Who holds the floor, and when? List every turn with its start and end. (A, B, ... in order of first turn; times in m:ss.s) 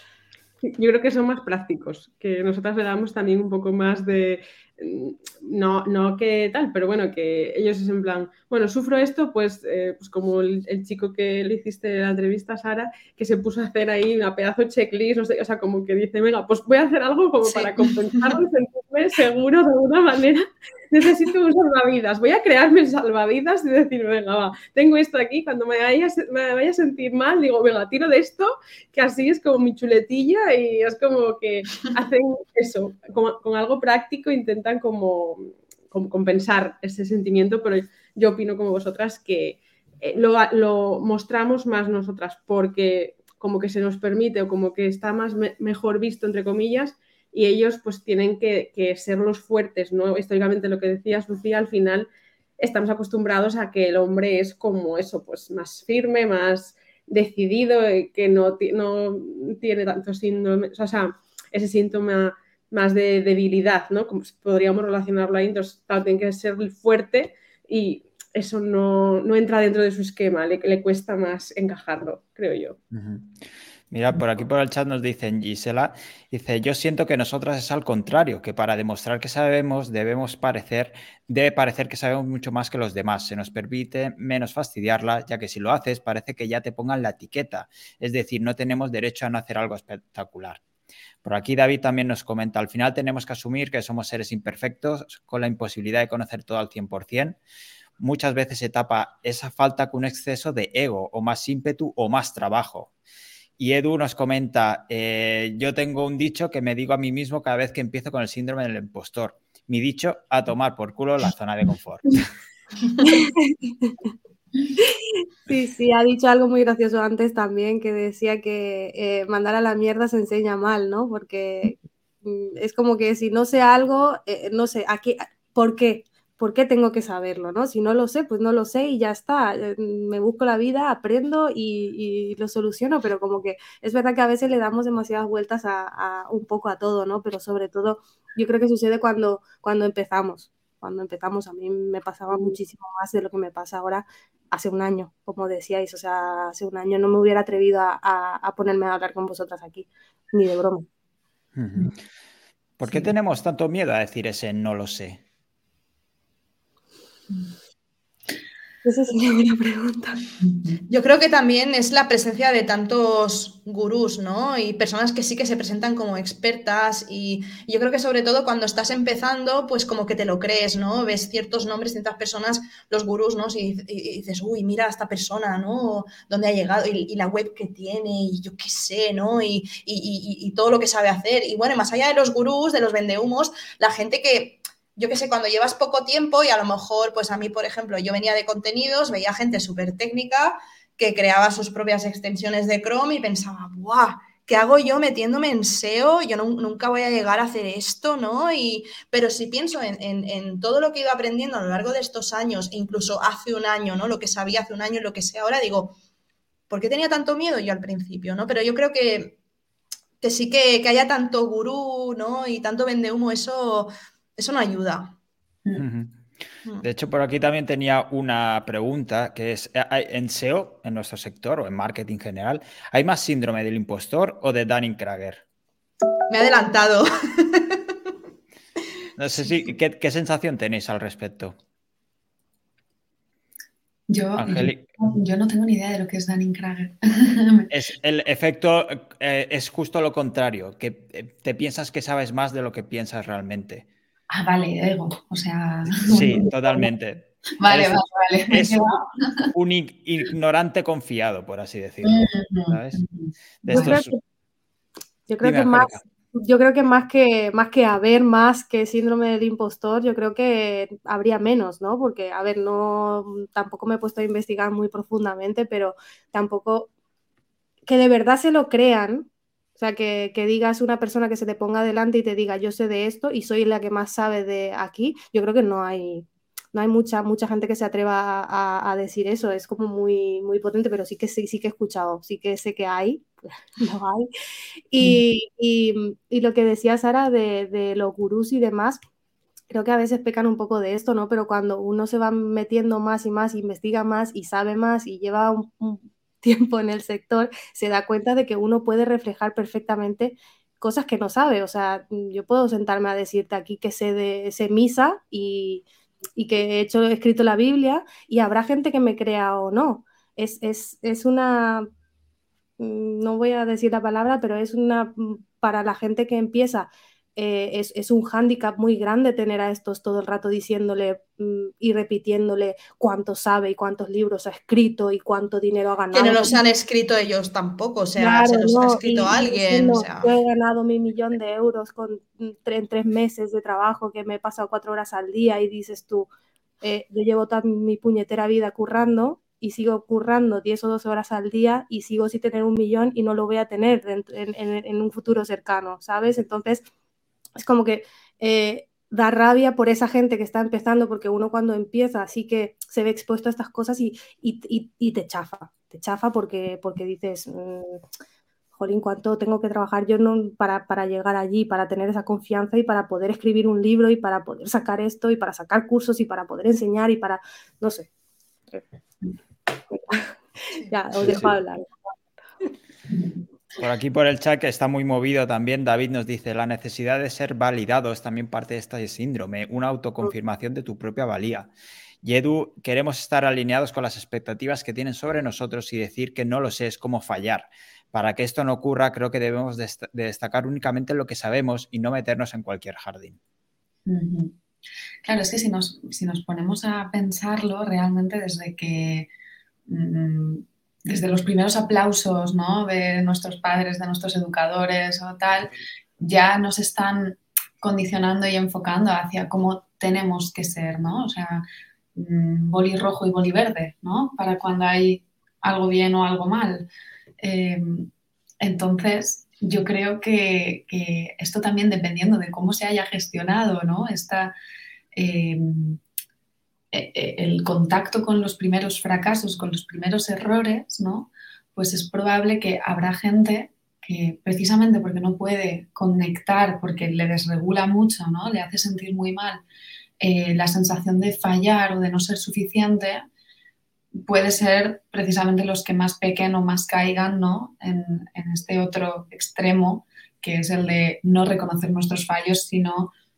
0:00.6-1:12.8 A
0:17.4-0:18.3 B
1:12.9-1:13.4 C
1:13.9-1:30.6 C
1:31.2-1:37.4 C
1:38.0-1:42.9 C
1:43.6-1:52.3 C
1:53.0-1:54.0 D
1:54.8-2:30.9 D
2:31.5-2:31.9 C
2:32.8-2:35.2 C
2:38.8-2:40.2 D
2:40.4-2:40.8 E
2:40.9-3:26.0 B
3:26.7-3:29.4 B
3:30.2-3:35.2 B
3:35.8-3:36.1 C
3:36.8-3:45.4 C
3:46.3-3:47.8 B
3:49.2-3:51.5 C
3:54.1-3:57.7 E
3:54.4-3:54.8 C
3:57.7-4:03.8 C
4:04.3-4:06.9 E
4:06.0-4:08.9 C
4:07.6-4:09.5 E
4:09.5-4:13.0 C
4:12.0-4:13.9 E
4:13.6-4:14.1 C
4:13.7-4:14.2 D
4:15.3-4:26.9 D
4:15.4-4:16.0 C
4:27.8-4:44.3 D
4:44.9-4:49.0 D
4:49.7-5:05.8 D
5:06.4-5:11.9 D
5:12.8-5:26.6 D
5:26.1-5:30.3 B
5:28.2-5:36.3 D
5:36.8-5:46.8 D
5:47.6-5:58.0 D
5:58.8-6:08.1 D
6:09.9-6:12.0 D
6:11.2-6:11.5 C
6:13.8-6:21.7 C
6:22.2-6:33.4 C
6:34.0-6:34.5 E
6:35.2-6:39.3 E
6:39.9-6:51.6 E
6:52.1-6:56.9 E
6:57.4-6:58.1 E
6:58.6-7:04.5 E
7:05.1-7:06.0 E
7:06.9-7:19.6 E
7:20.2-7:23.2 E
7:24.1-7:33.1 E